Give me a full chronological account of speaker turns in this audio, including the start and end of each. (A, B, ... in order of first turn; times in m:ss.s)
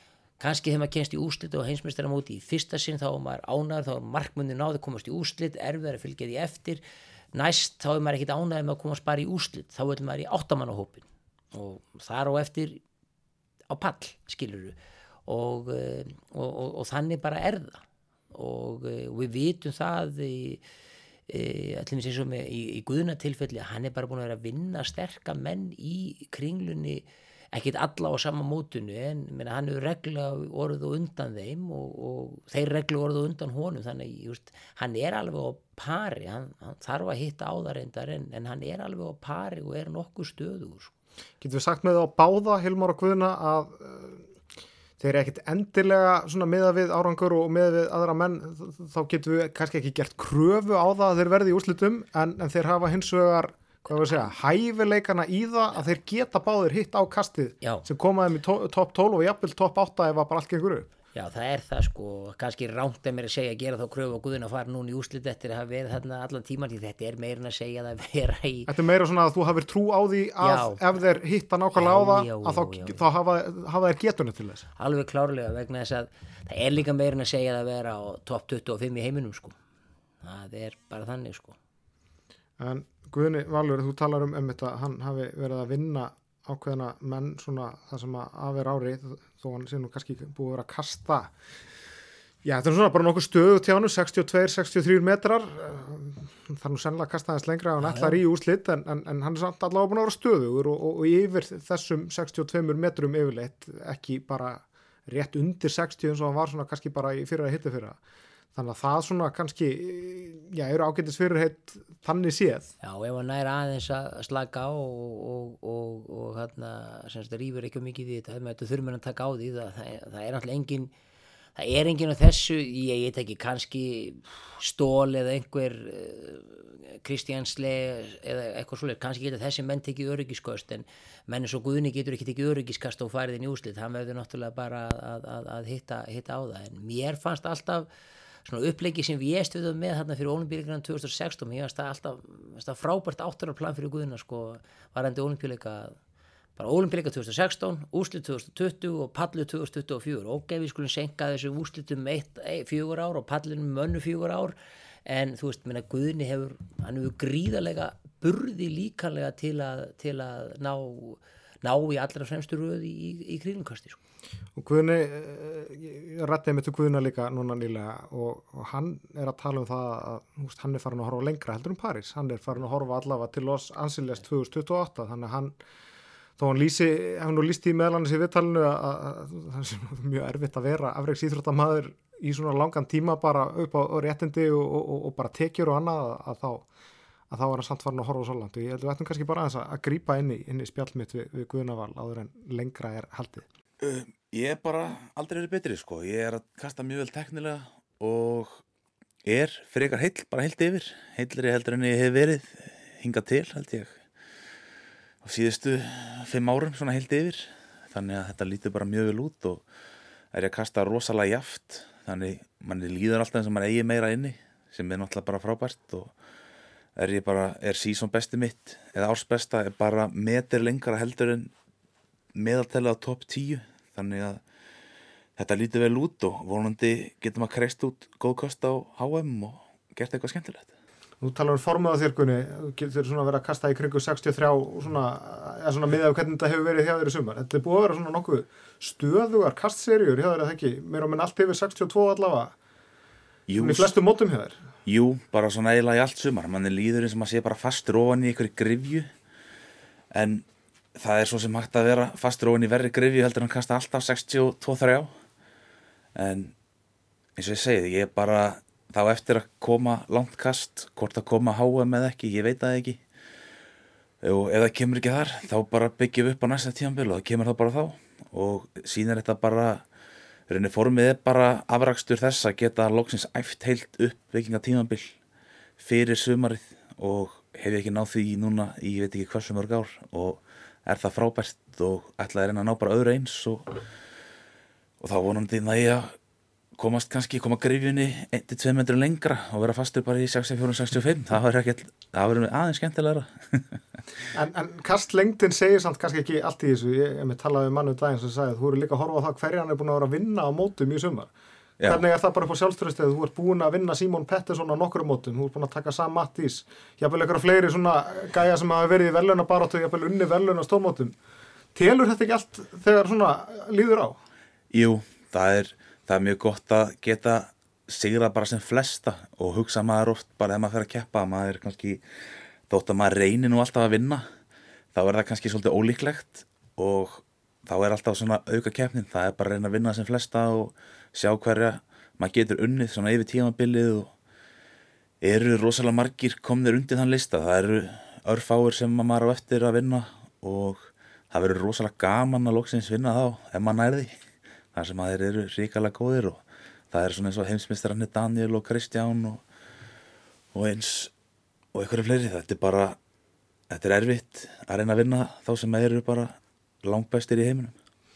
0:00.4-0:06.8 A
0:07.3-0:12.8 A
0:13.7-0:14.7 A
0:15.2-0:17.8 A
0:18.3-0:20.6 A
0:21.3-0:40.9 A
0:41.4-0:44.2 B
0:45.0-1:00.9 B
1:01.1-1:08.7 A
1:08.7-1:14.6 B
1:10.4-1:10.9 A
1:11.7-1:13.0 A
1:14.8-1:19.6 A
1:20.2-1:21.6 A
1:22.6-1:31.3 B
1:32.4-1:48.0 B
1:37.8-1:38.2 A
1:48.5-1:52.7 B
1:52.8-2:00.9 A
2:01.6-2:17.9 A
2:18.4-2:25.9 A
2:26.6-2:34.5 A
2:35.0-2:44.0 A
2:44.6-2:55.6 B
2:56.4-3:06.6 B
3:07.3-3:13.4 B
3:13.8-3:18.6 C
3:19.2-3:24.0 C
3:25.2-3:29.6 C
3:30.3-3:36.1 C
3:37.0-3:41.5 C
3:42.3-3:44.4 C
3:45.4-3:50.7 C
3:51.2-4:02.5 B
4:03.5-4:03.9 C
4:03.6-4:04.6 B
4:04.8-4:09.1 C
4:10.1-4:15.1 C
4:16.2-4:16.5 C
4:17.4-4:23.0 C
4:24.2-4:29.8 C
4:30.5-4:35.1 C
4:35.8-4:43.8 C
4:45.0-4:46.1 C
4:46.8-4:53.8 C
4:54.3-5:01.3 B
5:01.8-5:11.1 B
5:11.7-5:14.2 B
5:14.7-5:22.0 C
5:22.7-5:24.2 C
5:24.9-5:34.1 C
5:35.2-5:44.1 C
5:44.7-5:49.4 C
5:50.5-5:51.1 C
5:51.7-5:53.0 C
5:53.7-5:57.7 C